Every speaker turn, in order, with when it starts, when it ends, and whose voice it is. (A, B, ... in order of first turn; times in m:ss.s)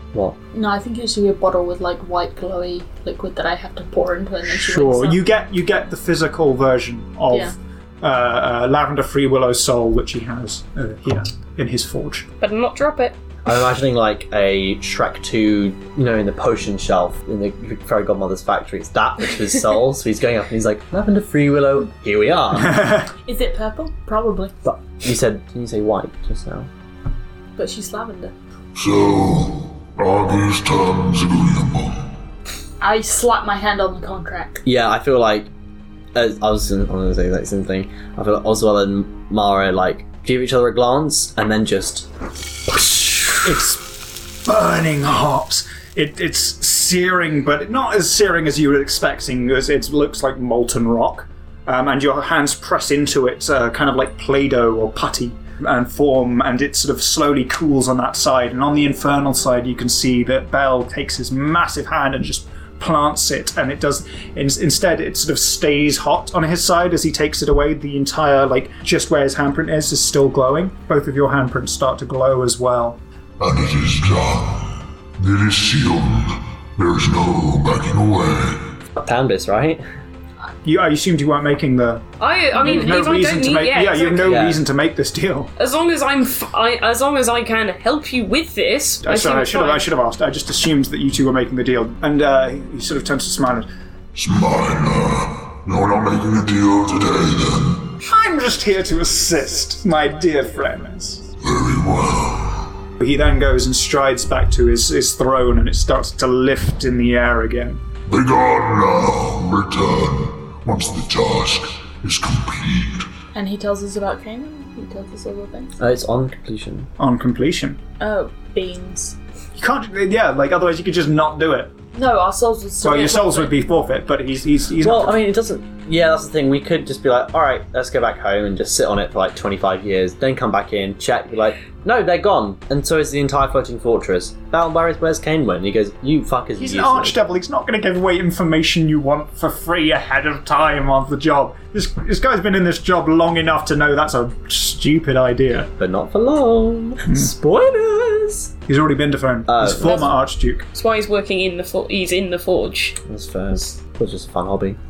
0:00.5-0:05.2 A
0:04.5-0:12.3 B
0:12.4-0:13.2 C
0:13.4-0:22.8 D
0:22.6-0:23.1 B
0:23.3-0:24.5 A
0:24.6-0:26.7 D
0:27.6-0:28.3 A
0:28.8-0:32.1 E
0:32.8-0:34.6 A
0:34.6-0:35.5 D
0:36.2-0:42.1 D
0:42.7-0:43.3 D
0:43.4-0:43.9 B
0:44.4-1:13.0 B
1:13.4-1:18.6 E
1:19.0-1:19.8 D
1:20.6-1:25.5 B
1:22.2-1:24.4 C
1:24.2-1:24.6 D
1:25.6-1:29.9 C
1:29.0-1:33.7 B
1:34.2-1:38.0 E
1:38.0-1:41.3 B
1:41.4-1:42.7 E
1:43.0-1:47.8 B
1:48.1-1:53.1 E
1:53.3-1:55.8 A
1:55.8-1:56.9 D
1:57.0-1:57.8 B
1:58.0-1:59.2 A
1:59.6-2:01.7 B
2:01.9-2:03.6 A
2:02.8-2:05.2 B
2:04.8-2:17.2 D
2:16.6-2:25.7 B
2:25.8-2:28.5 D
2:28.7-2:30.6 B
2:29.5-2:30.1 D
2:30.7-2:33.0 C
2:33.1-2:34.8 D